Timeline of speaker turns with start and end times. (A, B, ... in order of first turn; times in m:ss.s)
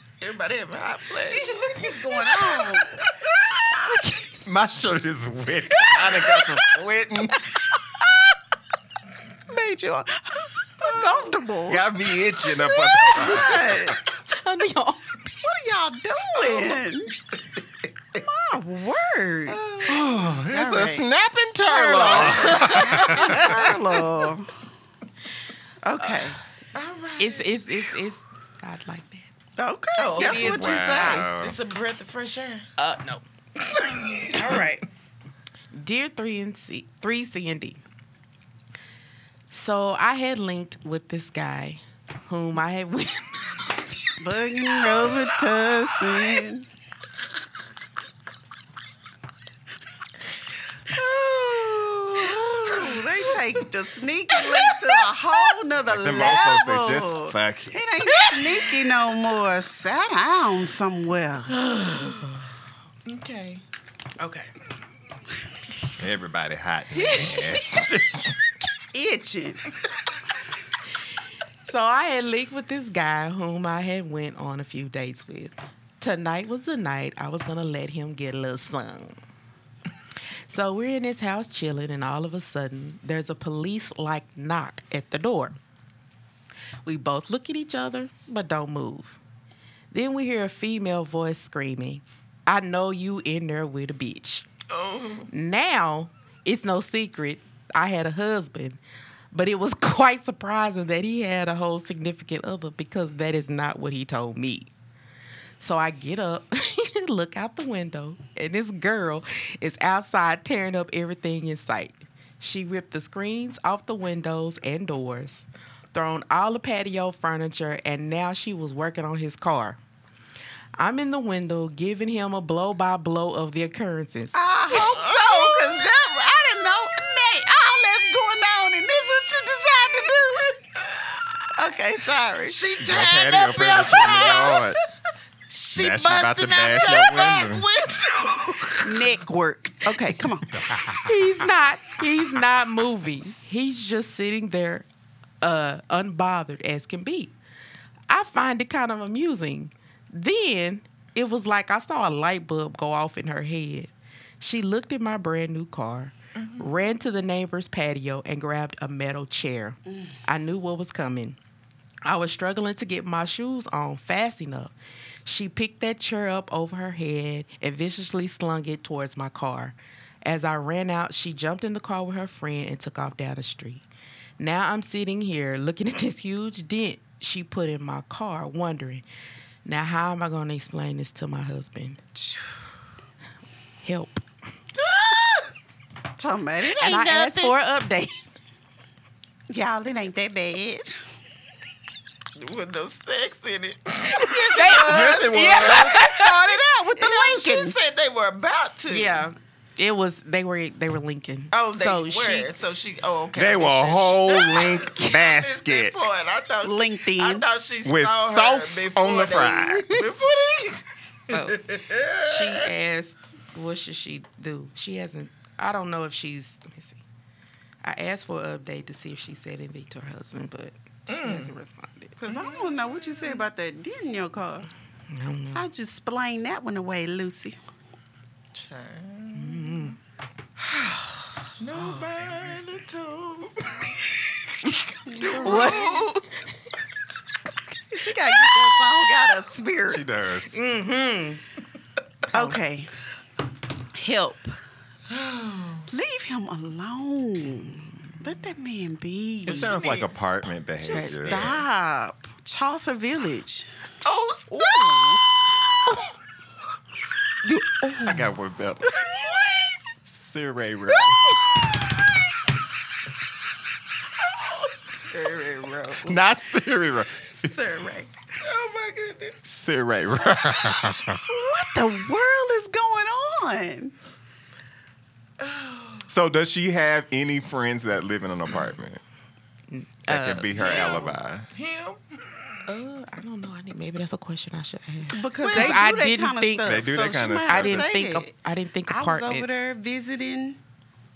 0:00.2-0:02.3 A
0:01.3-0:03.0 B
0:03.6-0:04.5 C
0:04.4-0:07.6 D
0:09.5-0:11.9 B
0:11.7-0:14.1 D
0:12.8-0:14.1 B
0:14.3-0:15.2 C
0:15.4-0:17.1 B
0:16.4-0:16.8 A
0:18.2-0:19.6 B
0:19.5-0:20.1 A
0:19.8-0:23.6 D
0:20.5-0:21.0 B
0:21.7-0:24.5 B
0:22.0-0:23.4 A
0:22.1-0:23.5 C
0:25.8-0:26.4 B
0:26.0-0:26.3 C
0:26.7-0:27.6 A
0:27.2-0:29.3 C
0:29.6-0:31.2 B
0:30.0-0:32.7 A
0:30.2-0:31.2 C
0:30.2-0:31.6 D
0:32.8-0:33.2 C
0:33.7-0:34.6 A
0:34.3-0:34.8 B
0:35.7-0:37.8 C
0:39.5-0:43.5 C
0:44.2-0:46.7 B
0:50.9-0:52.8 A
0:52.2-1:01.6 B
0:55.8-0:57.8 D
1:01.5-1:02.5 C
1:03.0-1:03.6 A
1:06.0-1:08.4 D
1:06.9-1:07.6 C
1:08.9-1:09.6 B
1:11.6-1:19.2 C
1:20.5-1:25.6 C
1:26.8-1:29.2 C
1:29.9-1:34.5 C
1:34.7-1:35.3 A
1:35.3-1:38.8 C
1:39.3-1:44.7 C
1:45.6-1:59.8 C
2:00.8-2:04.3 C
2:04.3-2:10.6 B
2:04.7-2:05.8 A
2:11.5-2:12.6 B
2:12.4-2:14.7 A
2:12.8-2:14.8 D
2:15.5-2:19.0 A
2:15.7-2:17.7 D
2:18.8-2:20.5 B
2:20.5-2:21.3 D
2:21.0-2:24.9 C
2:25.4-2:27.3 C
2:28.1-2:41.4 C
2:36.3-2:36.9 A
2:42.0-2:44.7 C
2:45.2-2:53.8 C
2:54.4-2:59.0 C
2:59.6-3:02.0 C
3:02.2-3:02.5 B
3:03.8-3:04.2 C
3:04.8-3:05.5 A
3:06.2-3:07.5 B
3:06.8-3:08.2 C
3:09.5-3:11.0 B
3:12.4-3:15.9 A
3:14.2-3:17.7 B
3:14.3-3:16.3 C
3:14.8-3:16.0 D
3:17.0-3:19.3 A
3:18.9-3:22.5 C
3:21.5-3:32.7 A
3:23.3-3:25.9 D
3:26.6-3:27.4 B
3:27.8-3:30.1 D
3:31.3-3:31.6 C
3:32.2-3:37.0 C
3:37.8-3:42.1 C
3:41.1-3:41.6 A
3:42.2-3:44.7 B
3:42.3-3:43.4 A
3:45.1-3:45.6 C
3:45.5-3:47.6 B
3:48.5-3:50.0 A
3:49.4-3:50.0 C
3:51.6-3:54.0 A
3:51.7-3:52.4 C
3:55.0-3:56.0 B
3:55.1-3:56.2 A
3:55.2-3:56.2 C
3:57.9-4:00.0 B
3:59.9-4:00.6 D
4:00.5-4:01.4 C
4:02.3-4:02.9 B
4:03.9-4:04.6 B
4:05.1-4:05.9 A
4:05.9-4:09.8 B
4:09.5-4:10.1 A
4:09.5-4:11.6 D
4:10.8-4:13.7 B
4:11.2-4:11.6 A
4:14.0-4:15.2 A
4:14.5-4:15.0 C
4:17.4-4:18.3 C
4:18.0-4:19.1 D
4:20.1-4:21.2 D
4:24.2-4:25.8 A
4:26.0-4:27.5 D
4:27.4-4:28.1 B
4:28.4-4:29.4 A
4:29.4-4:31.2 D
4:31.2-4:33.9 B
4:35.4-4:36.1 A
4:36.1-4:39.0 D
4:39.7-4:41.1 C
4:40.1-4:41.5 D
4:40.5-4:42.7 A
4:42.7-4:46.8 C
4:45.1-4:48.3 B
4:45.4-4:45.8 A
4:46.6-4:47.9 D
4:47.4-4:49.4 C
4:48.9-4:50.6 B